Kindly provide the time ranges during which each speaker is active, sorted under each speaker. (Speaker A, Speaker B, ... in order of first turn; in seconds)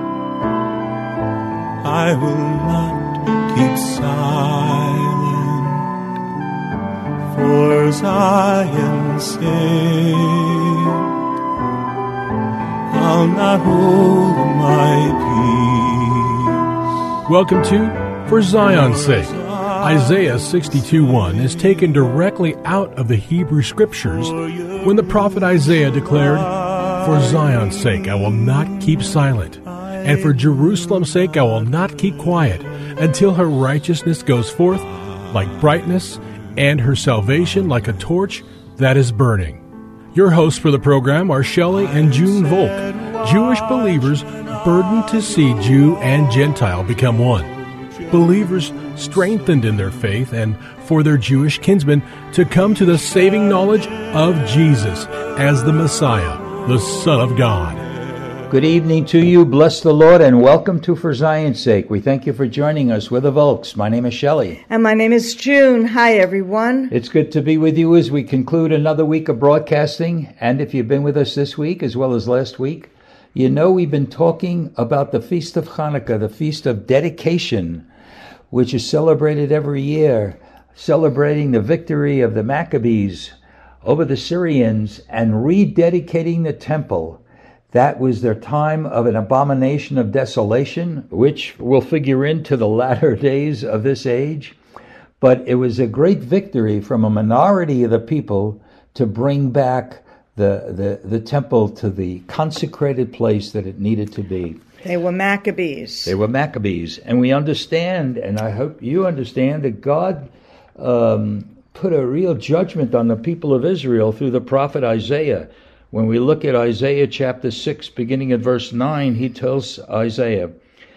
Speaker A: 1.8-5.8, 7.3-11.0, 12.9-16.3
Speaker B: 17.3-39.6, 40.1-47.5, 48.0-57.8
Speaker C: 58.5-64.6, 66.9-77.9, 78.5-94.6, 95.2-104.6, 106.1-120.6
Speaker D: 64.7-66.9, 104.8-106.2